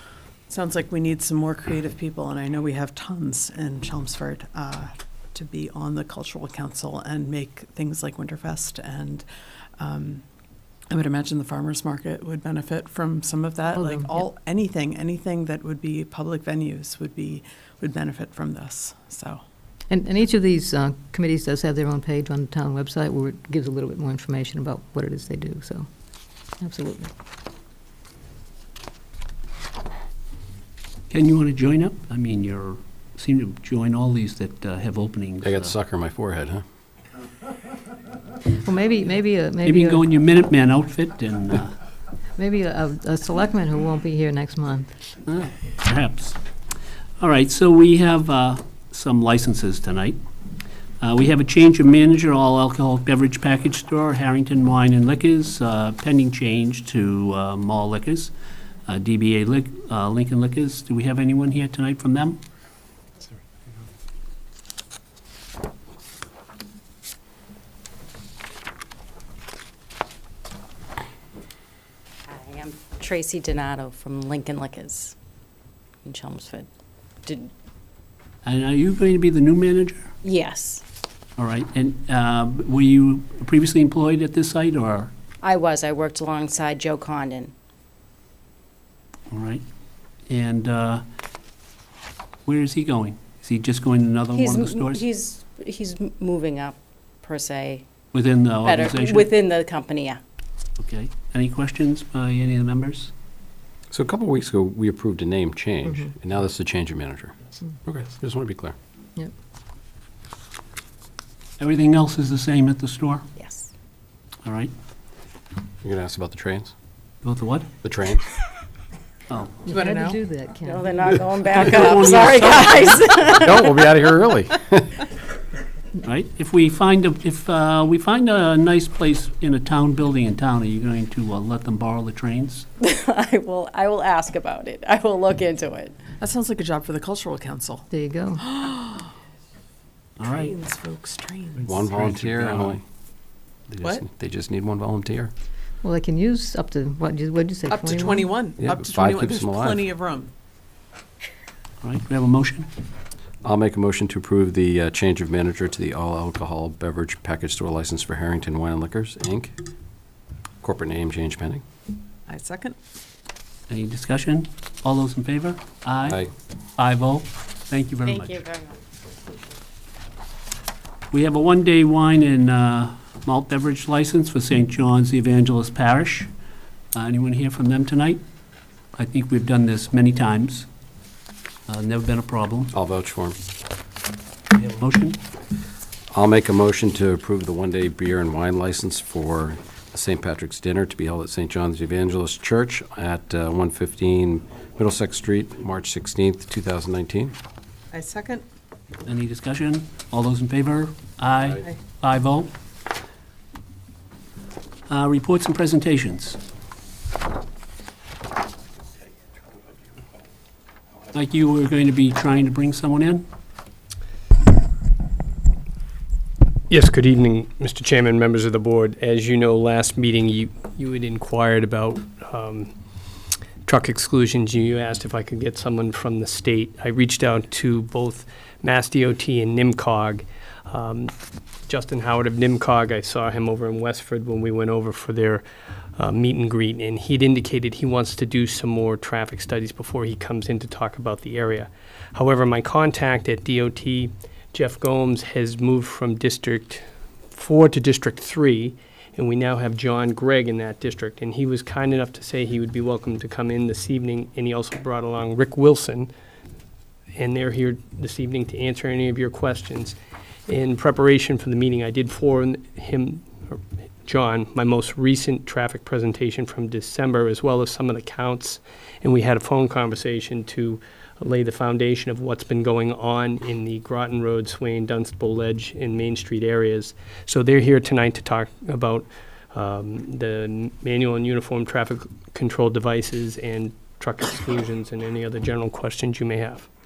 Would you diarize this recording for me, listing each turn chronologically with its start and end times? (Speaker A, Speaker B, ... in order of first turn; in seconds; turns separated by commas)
Speaker A: 0.5-9.3, Speaker A: 9.8-10.2, Speaker A: 10.9-19.4, Speaker B: 13.7-14.2, Speaker B: 19.9-25.9, Speaker B: 26.6-27.1, Speaker C: 31.1-35.7, Speaker D: 35.4-36.6, Speaker B: 38.5-40.0, Speaker C: 39.6-41.8, Speaker B: 42.4-44.9, Speaker C: 45.2-46.4, Speaker C: 47.2-50.2, Speaker C: 51.0-58.3, Speaker C: 58.9-62.4, Speaker E: 72.3-75.2, Speaker E: 76.0-76.7, Speaker E: 77.2-77.5, Speaker C: 78.4-80.1, Speaker E: 80.2-80.8, Speaker C: 81.4-85.1, Speaker E: 85.4-87.5, Speaker C: 89.3-89.6, Speaker C: 90.3-91.0, Speaker C: 92.5-95.0, Speaker E: 94.3-97.9, Speaker C: 98.1-99.3, Speaker E: 98.6-100.2, Speaker C: 100.8-103.1, Speaker D: 103.9-108.8, Speaker C: 111.6-113.2, Speaker E: 113.3-113.7, Speaker C: 114.4-114.7, Speaker D: 115.8-116.7, Speaker C: 117.2-117.7, Speaker D: 117.8-118.3, Speaker C: 119.3-119.6, Speaker B: 119.6-121.0, Speaker A: 119.7-120.2, Speaker E: 120.6-123.8, Speaker C: 121.5-123.1, Speaker D: 123.4-125.0, Speaker C: 126.0-132.7, Speaker E: 132.8-136.0, Speaker A: 136.2-137.8, Speaker B: 137.9-138.4, Speaker A: 138.4-139.1, Speaker C: 140.2-140.5, Speaker A: 140.2-141.7, Speaker C: 141.6-142.8, Speaker D: 141.7-142.8, Speaker D: 143.7-145.3, Speaker B: 145.8-148.3, Speaker A: 147.7-150.3, Speaker D: 148.6-149.8, Speaker C: 151.8-152.7, Speaker D: 153.4-159.6, Speaker D: 160.6-161.6, Speaker A: 162.3-162.8, Speaker C: 163.7-166.2, Speaker C: 166.8-168.4, Speaker E: 168.0-168.8, Speaker C: 171.1-176.3, Speaker C: 176.9-178.2, Speaker C: 178.9-180.7, Speaker C: 181.7-182.7, Speaker D: 182.7-183.4, Speaker C: 184.5-185.2, Speaker D: 186.1-197.3, Speaker A: 197.9-198.4, Speaker C: 199.1-202.5, Speaker C: 204.9-206.4, Speaker C: 211.1-213.2, Speaker F: 216.7-222.7, Speaker F: 223.6-231.1, Speaker F: 231.7-235.4, Speaker F: 236.0-256.1, Speaker F: 257.1-260.0, Speaker F: 260.5-286.7